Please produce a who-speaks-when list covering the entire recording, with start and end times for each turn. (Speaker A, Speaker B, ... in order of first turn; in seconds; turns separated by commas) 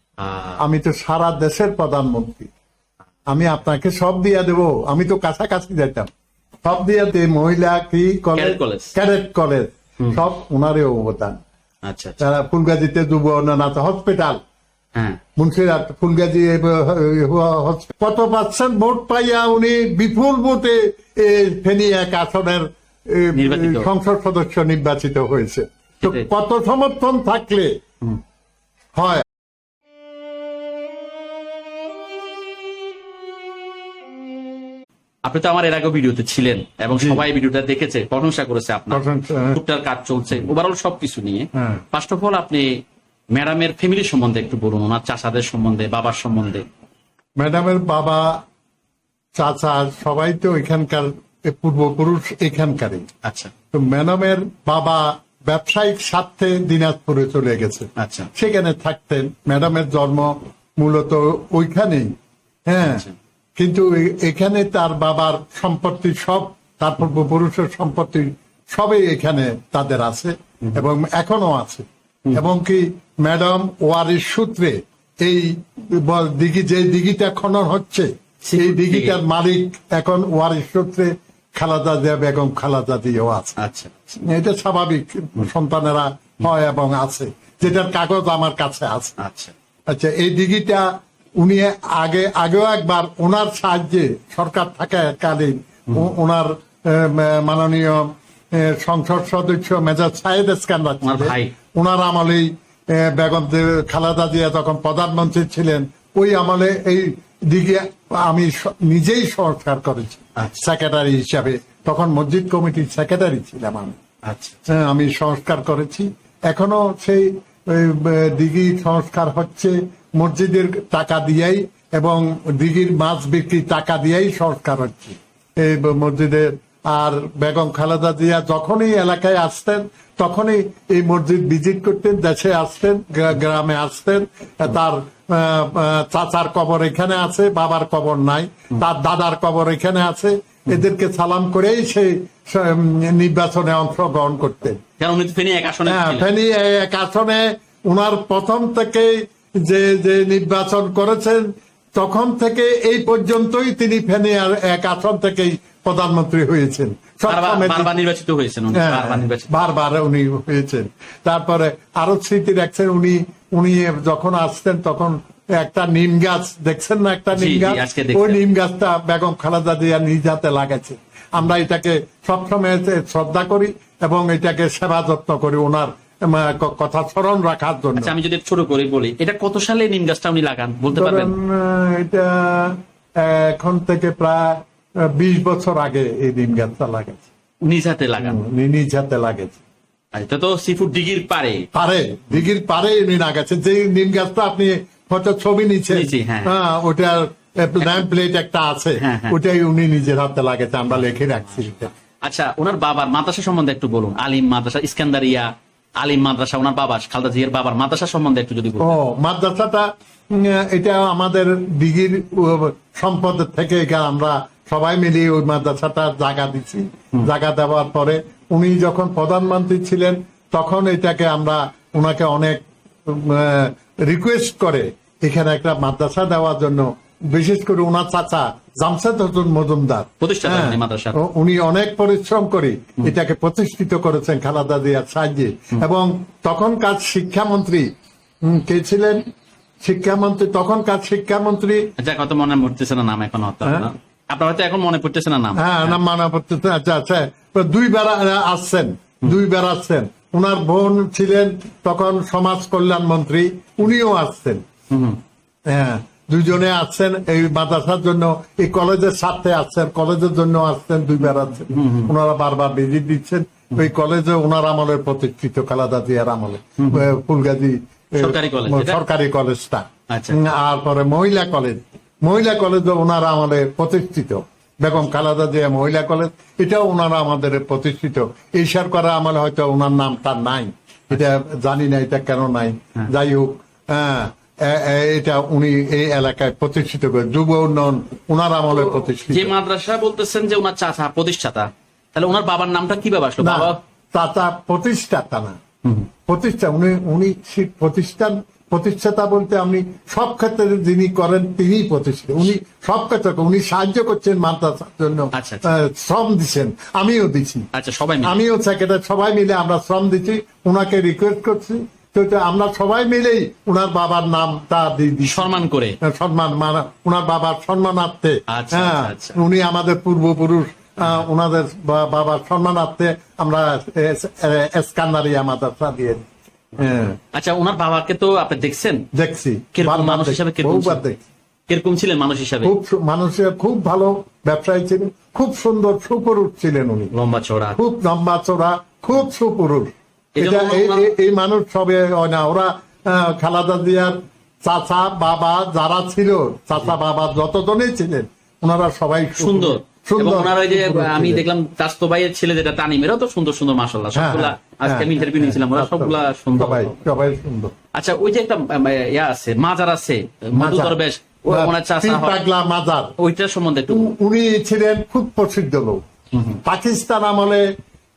Speaker A: 0.2-0.6, Speaker B: 0.6-2.5, Speaker B: 3.3-6.1, Speaker B: 6.6-11.4, Speaker A: 8.3-8.9, Speaker A: 11.9-12.2, Speaker B: 12.2-14.4, Speaker A: 14.9-15.2, Speaker B: 15.4-27.8, Speaker A: 23.3-23.9, Speaker A: 26.0-26.3, Speaker B: 29.0-29.3, Speaker A: 35.2-42.7, Speaker B: 37.0-37.2, Speaker B: 38.9-39.6, Speaker B: 41.6-41.8, Speaker A: 43.3-46.6, Speaker B: 47.4-48.4, Speaker B: 49.4-53.1, Speaker A: 53.2-53.5, Speaker B: 53.7-62.1, Speaker A: 58.0-58.3, Speaker B: 62.7-63.1, Speaker A: 62.8-63.2, Speaker B: 63.6-83.6, Speaker A: 78.4-79.2, Speaker A: 83.6-84.2, Speaker B: 84.2-89.2, Speaker A: 89.2-89.5, Speaker B: 89.9-114.0, Speaker A: 101.0-101.6, Speaker A: 110.4-110.7, Speaker A: 114.3-114.7, Speaker B: 114.7-144.8, Speaker A: 145.0-146.3, Speaker B: 145.9-157.9, Speaker A: 157.3-159.5, Speaker B: 158.8-178.1, Speaker A: 167.3-168.4, Speaker A: 178.0-181.3, Speaker B: 180.9-187.3, Speaker A: 187.6-188.4, Speaker B: 188.2-189.6, Speaker A: 190.1-191.7, Speaker B: 191.7-201.9, Speaker A: 195.9-196.5, Speaker A: 197.8-198.1, Speaker A: 199.0-199.3, Speaker A: 200.9-201.7, Speaker A: 202.2-209.0, Speaker B: 208.8-237.9, Speaker A: 230.2-231.2, Speaker B: 238.4-239.2, Speaker B: 239.8-241.9, Speaker A: 242.0-246.0, Speaker B: 245.6-254.6, Speaker A: 254.9-255.2, Speaker B: 255.7-289.5, Speaker A: 261.7-262.1, Speaker A: 266.8-267.1, Speaker A: 268.2-269.0, Speaker A: 270.1-270.4, Speaker A: 288.8-293.8, Speaker B: 293.4-295.6, Speaker B: 296.3-307.7, Speaker A: 305.3-305.7, Speaker A: 307.7-308.5, Speaker B: 308.2-327.2, Speaker A: 315.3-316.0, Speaker A: 318.5-319.4, Speaker A: 326.8-329.1, Speaker B: 329.1-331.2, Speaker A: 329.8-331.1, Speaker A: 331.7-332.7, Speaker B: 332.6-337.1, Speaker A: 337.1-337.8, Speaker B: 337.8-351.4, Speaker A: 340.4-341.1, Speaker A: 349.3-356.9, Speaker B: 354.1-357.7, Speaker A: 357.9-362.4, Speaker B: 360.6-361.0, Speaker B: 361.5-363.1, Speaker A: 363.2-364.1, Speaker B: 363.9-366.0, Speaker A: 366.3-366.6, Speaker B: 366.6-367.7